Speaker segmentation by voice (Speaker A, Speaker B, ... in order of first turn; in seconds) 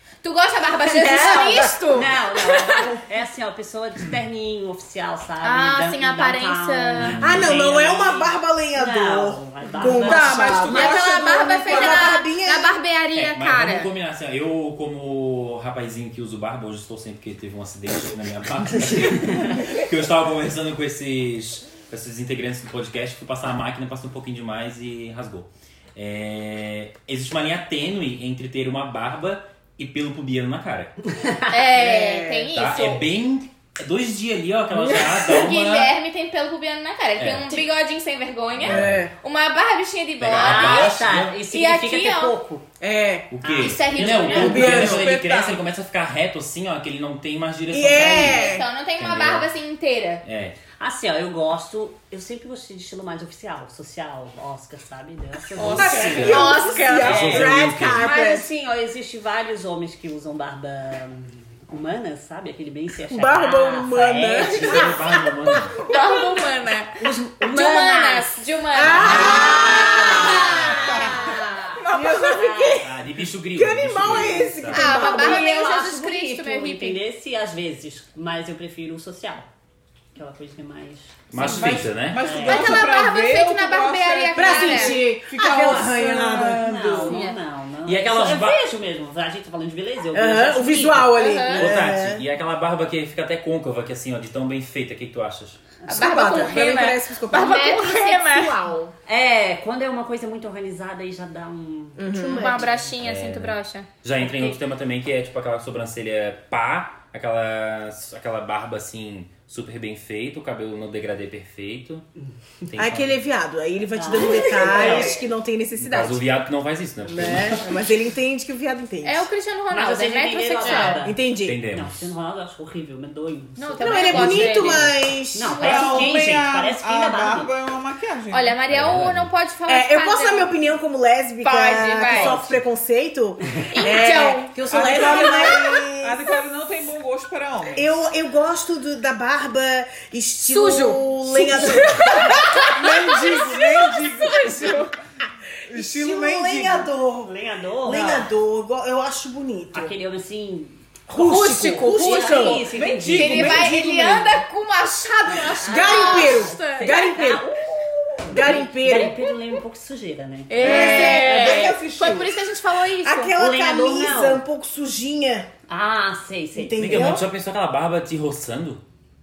Speaker A: 0.2-2.1, 5.4-7.2, 10.7-13.9, 31.5-33.0, 35.1-42.3, 43.6-44.8, 48.0-50.2, 55.8-57.1, 65.8-71.4, 74.7-77.0, 82.3-85.0, 87.0-87.4, 91.2-91.7, 95.8-98.5, 102.1-103.9, 119.0-121.0, 123.5-126.2, 128.3-130.6, 131.4-132.4, 133.7-134.5, 135.1-135.5, 140.4-144.8, 151.1-157.3, 160.5-163.3
Speaker B: 0.9-1.7, 7.2-12.8, 31.7-32.5, 38.6-39.1, 42.8-43.3, 44.4-45.2, 47.7-48.7, 55.8-58.5, 63.1-65.6, 68.7-75.7, 84.3-87.1, 90.1-92.2, 95.9-97.6, 102.0-102.6, 112.8-116.3, 117.0-119.3, 121.0-121.6, 123.8-126.0, 129.7-136.3, 137.8-143.6, 145.7-147.3, 147.8-149.9, 151.1-154.2, 155.6-159.2, 160.6-162.3, 163.0-165.5, 166.6-167.2
Speaker C: 1.1-10.8, 31.1-31.6, 40.3-42.6, 43.4-44.8, 50.8-56.5, 57.0-65.0, 67.0-68.4, 69.0-70.3, 72.1-72.8, 74.8-79.5, 80.1-82.8, 85.5-91.3, 99.1-102.9, 104.2-104.5, 113.9-115.2, 119.7-127.5, 132.2-132.5, 134.5-135.6, 147.2-148.3, 149.7-151.0, 151.7-153.7, 155.7-157.6, 158.2-161.2, 163.3-164.4, 165.7-167.1
Speaker D: 7.0-7.6, 13.1-31.0, 32.5-35.9, 37.2-37.6, 38.6-39.0, 40.2-41.4, 43.3-49.5, 50.2-50.6, 55.7-56.5, 57.0-58.1, 64.4-65.8, 69.0-69.7, 72.8-74.8, 81.3-82.2, 87.8-88.7, 91.5-95.6, 103.0-112.0, 112.7-113.2, 115.8-117.7, 121.4-122.1, 128.7-129.3, 166.8-168.8
Speaker E: 9.8-12.1, 44.6-45.6, 55.6-56.7, 70.7-72.4, 81.4-87.1, 125.5-128.6, 134.7-138.0, 142.6-144.9, 145.7-146.9, 152.7-154.2, 160.8-161.8
Speaker F: 97.3-98.9, 102.2-102.6, 120.6-120.9